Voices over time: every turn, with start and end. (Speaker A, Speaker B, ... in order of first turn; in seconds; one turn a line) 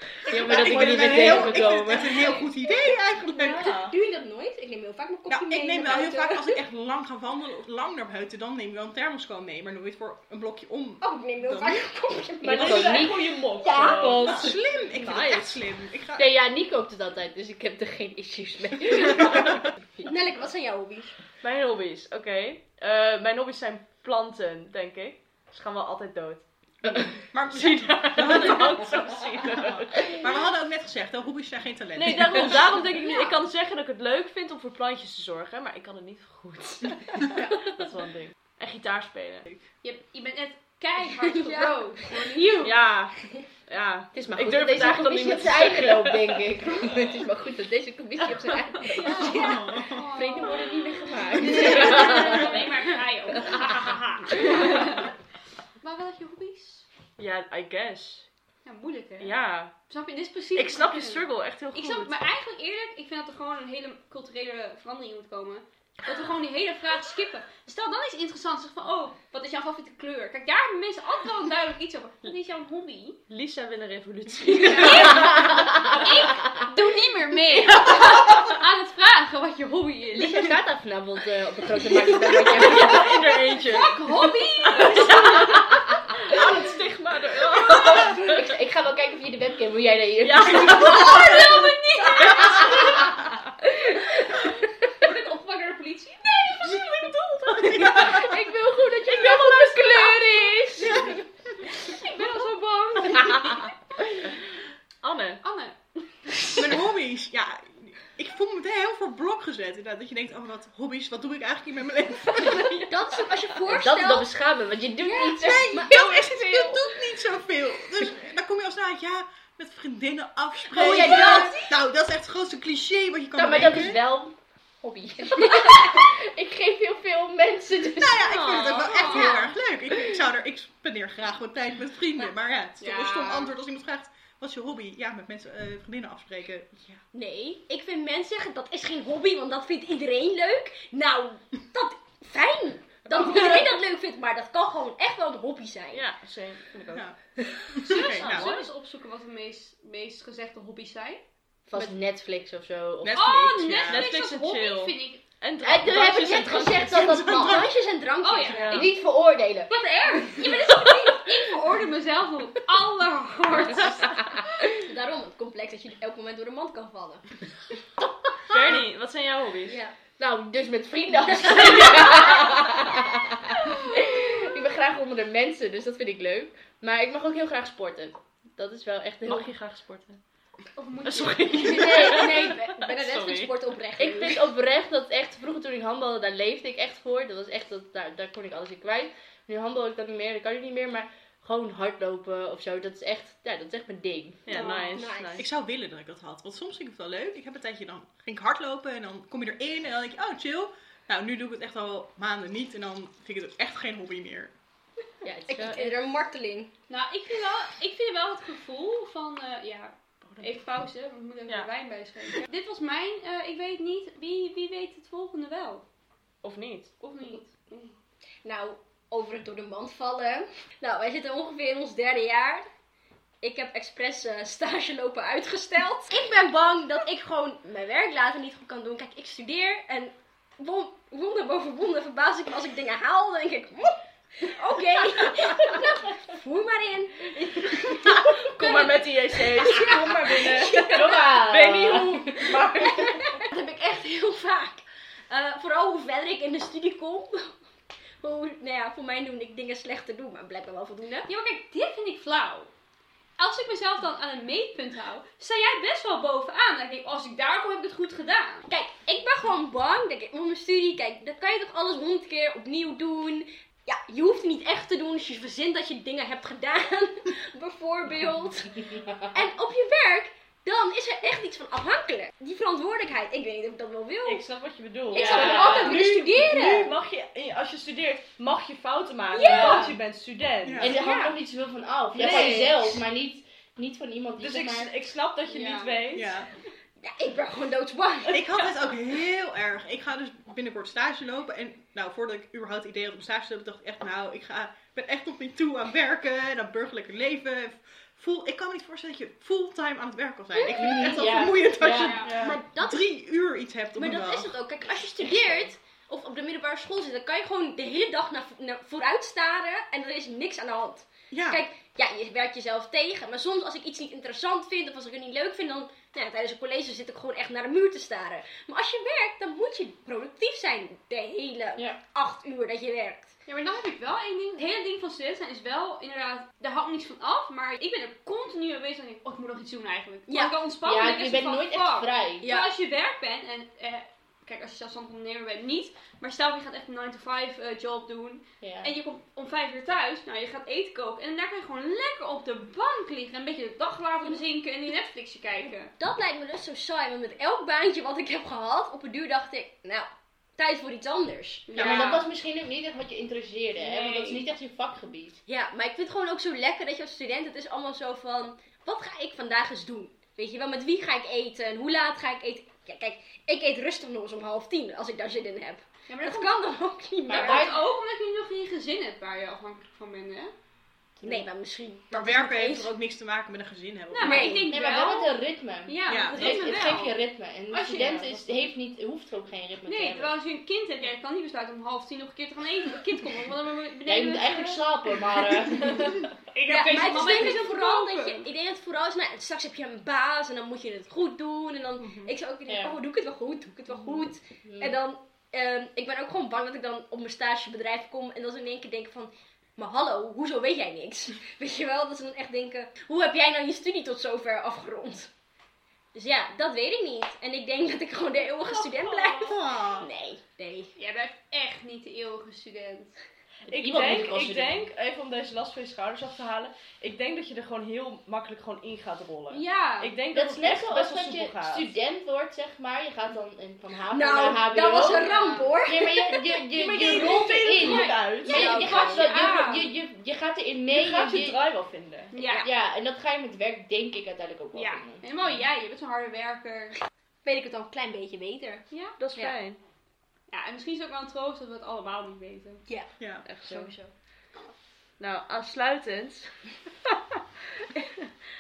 Speaker A: 0.3-2.3
Speaker B: 0.3-3.7
Speaker C: 0.3-1.6
Speaker D: 3.3-4.0
Speaker C: 3.7-6.6
Speaker B: 5.3-11.9
Speaker C: 11.0-14.6
Speaker A: 12.4-14.5
Speaker D: 12.4-15.6
Speaker B: 14.0-16.3
Speaker A: 16.2-20.1
Speaker C: 20.0-21.2
Speaker D: 21.4-30.2
Speaker B: 27.3-32.8
Speaker D: 31.9-39.5
Speaker C: 33.0-33.3
Speaker E: 39.8-42.8
Speaker C: 41.2-42.6
Speaker D: 42.6-46.9
Speaker A: 44.1-49.6
Speaker C: 48.8-52.5
Speaker E: 49.0-55.1
Speaker B: 49.3-50.1
Speaker A: 50.1-52.6
Speaker E: 55.8-56.9
Speaker D: 57.2-58.3
Speaker E: 58.6-59.4
Speaker D: 59.2-59.8
Speaker E: 59.9-73.2
Speaker D: 60.5-62.2
Speaker D: 73.3-76.1
Speaker E: 74.6-80.5
Speaker A: 75.1-76.5
Speaker B: 77.8-78.5
Speaker A: 80.2-83.2
Speaker D: 82.2-84.0
Speaker E: 83.6-85.7
Speaker D: 84.7-88.5
Speaker E: 86.3-86.6
Speaker A: 88.3-91.2
Speaker D: 90.2-91.5
Speaker B: 90.7-91.7
Speaker E: 90.8-93.1
Speaker A: 92.2-94.6
Speaker E: 94.3-97.1
Speaker D: 96.7-98.3
Speaker E: 97.6-98.2
Speaker A: 97.7-101.0
Speaker B: 97.8-98.0
Speaker E: 99.1-101.1
Speaker C: 100.8-101.2
Speaker E: 101.8-104.0
Speaker D: 105.0-105.4
Speaker E: 105.4-106.3
Speaker B: 106.5-112.8
Speaker C: 112.3-114.3
Speaker A: 113.7-115.9
Speaker C: 115.0-116.8
Speaker B: 115.5-124.0
Speaker A: 120.7-121.6
Speaker C: 120.9-121.6
Speaker A: 123.3-128.4
Speaker B: 127.9-137.0
Speaker D: 128.2-129.1
Speaker E: 128.8-129.5
Speaker E: 132.8-133.5
Speaker C: 137.1-146.0
Speaker D: 143.2-143.6
Speaker D: 145.9-147.1
Speaker B: 146.9-147.2
Speaker B: 147.7-148.5
Speaker E: 147.8-151.2
Speaker D: 147.9-148.7
Speaker A: 151.7-153.2
Speaker B: 153.0-154.1
Speaker E: 153.1-155.2
Speaker D: 153.9-157.2
Speaker A: 155.6-157.7
Speaker C: 156.0-158.9
Speaker B: 157.0-157.6
Speaker E: 158.2-158.9
Speaker D: 158.5-158.9
Speaker A: 158.7-160.4
Speaker E: 159.7-164.2
Speaker C: 159.9-161.2
Speaker C: 164.7-167.2
Speaker D: 168.5-169.8
Speaker C: 169.7-169.9
Speaker A: 170.2-179.5
Speaker C: 171.5-172.0
Speaker D: 179.2-180.2
Speaker E: 180.8-182.1
Speaker D: 181.1-183.6
Speaker C: 181.6-184.4
Speaker A: 184.0-194.4
Speaker D: 194.5-195.5
Speaker E: 194.5-195.0
Speaker C: 194.9-195.5
Speaker B: 195.4-204.5
Speaker A: 205.2-206.1
Speaker C: 205.5-206.7
Speaker E: 206.9-215.8
Speaker D: 210.3-210.6
Speaker D: 216.4-216.9
Speaker E: 217.0-217.9
Speaker C: 218.4-222.7
Speaker C: 223.4-247.6
Speaker D: 237.7-243.3
Speaker A: 240.7-243.1
Speaker C: 248.2-251.3
Speaker E: 251.3-252.7
Speaker E: 253.4-258.7
Speaker C: 258.7-274.4
Speaker D: 274.2-280.9
Speaker C: 275.1-276.9
Speaker A: 275.1-276.0
Speaker C: 279.3-280.0
Speaker A: 279.4-280.0
Speaker B: 280.6-281.0
Speaker A: 280.8-284.9
Speaker C: 280.8-281.4
Speaker D: 282.2-282.8
Speaker C: 282.2-282.8
Speaker D: 284.4-286.4
Speaker E: 285.5-286.0
Speaker B: 286.1-286.5
Speaker C: 287.0-288.7
Speaker B: 288.3-304.5
Speaker C: 300.5-301.5
Speaker A: 300.7-302.2
Speaker E: 301.9-302.3
Speaker D: 302.3-302.6
Speaker C: 302.3-303.1
Speaker C: 304.0-323.3
Speaker B: 311.3-311.6
Speaker E: 323.5-345.9
Speaker C: 330.3-330.6
Speaker A: 330.9-332.5
Speaker C: 332.4-332.7
Speaker A: 338.6-338.9
Speaker C: 346.0-351.7
Speaker E: 351.7-352.3
Speaker B: 351.7-352.1
Speaker A: 351.8-355.4
Speaker E: 353.8-354.4
Speaker C: 355.5-367.7
Speaker E: 366.1-366.6
Speaker A: 367.3-367.8
Speaker E: 367.3-370.5
Speaker C: 371.2-372.9
Speaker B: 372.1-374.6
Speaker E: 374.1-375.3
Speaker C: 374.2-374.7
Speaker A: 374.6-380.3
Speaker E: 375.9-378.4
Speaker B: 376.1-376.7
Speaker E: 379.9-384.9
Speaker A: 384.1-386.3
Speaker E: 386.5-388.5
Speaker C: 386.7-405.3
Speaker B: 392.0-392.3
Speaker A: 392.7-393.0
Speaker A: 394.6-395.0
Speaker C: 406.1-410.9
Speaker D: 408.7-409.3
Speaker B: 409.4-410.1
Speaker E: 411.0-413.2
Speaker D: 413.7-421.9
Speaker A: 413.7-414.9
Speaker E: 419.5-420.1
Speaker A: 420.3-431.6
Speaker C: 424.1-429.3
Speaker E: 425.1-425.8
Speaker D: 426.8-428.8
Speaker E: 427.8-429.9
Speaker D: 430.9-432.3
Speaker E: 432.3-432.7
Speaker C: 432.3-432.7
Speaker A: 432.6-435.2
Speaker E: 434.7-437.0
Speaker C: 437.4-438.9
Speaker D: 439.2-439.8
Speaker E: 440.5-442.9
Speaker B: 443.2-443.5
Speaker D: 443.5-443.9
Speaker E: 443.6-444.1
Speaker D: 445.2-446.5
Speaker D: 447.9-448.3